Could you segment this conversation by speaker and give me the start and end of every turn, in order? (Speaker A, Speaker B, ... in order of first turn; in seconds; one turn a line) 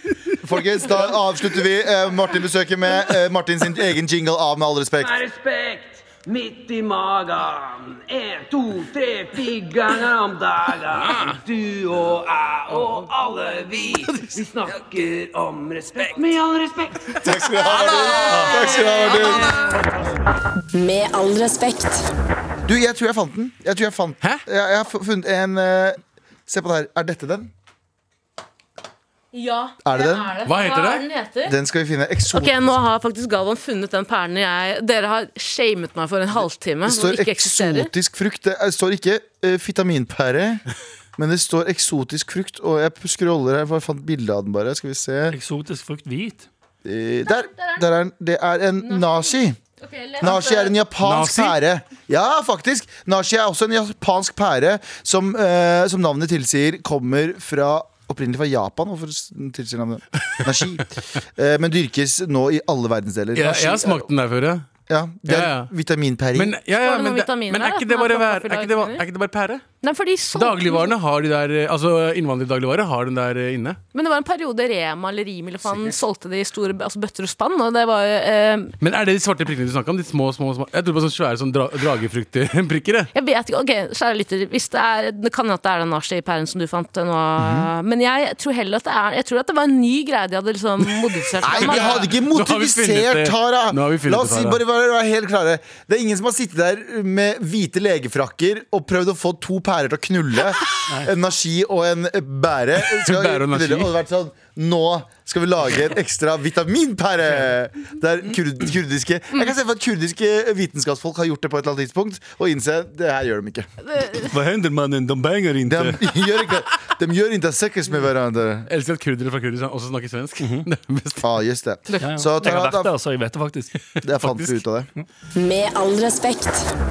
Speaker A: 0.3-5.2
Speaker B: 5.0-19.8
Speaker A: 17.2-19.5
Speaker C: 18.3-18.6
Speaker D: 19.0-19.4
Speaker E: 20.7-22.1
Speaker A: 22.7-27.5
Speaker D: 29.3-31.6
Speaker A: 29.8-30.4
Speaker F: 30.5-31.1
Speaker A: 31.5-32.8
Speaker D: 32.3-37.9
Speaker A: 36.9-40.6
Speaker A: 41.2-45.4
Speaker C: 45.3-46.5
Speaker A: 46.9-49.6
Speaker D: 47.3-47.9
Speaker D: 48.8-50.8
Speaker A: 50.2-64.1
Speaker F: 51.0-51.6
Speaker F: 63.4-64.7
Speaker A: 64.9-66.5
Speaker F: 65.3-65.7
Speaker F: 66.3-69.7
Speaker D: 66.8-69.0
Speaker D: 69.8-70.9
Speaker F: 70.3-73.8
Speaker D: 73.9-78.8
Speaker F: 78.8-83.1
Speaker D: 83.1-92.1
Speaker A: 87.4-87.7
Speaker A: 91.4-113.7
Speaker F: 91.4-94.6
Speaker F: 102.9-103.9
Speaker D: 113.8-114.3
Speaker C: 114.2-116.0
Speaker A: 115.7-118.7
Speaker F: 118.7-121.3
Speaker C: 120.4-120.7
Speaker A: 121.2-122.9
Speaker C: 122.0-123.7
Speaker A: 124.0-124.9
Speaker F: 124.2-124.5
Speaker E: 125.4-126.7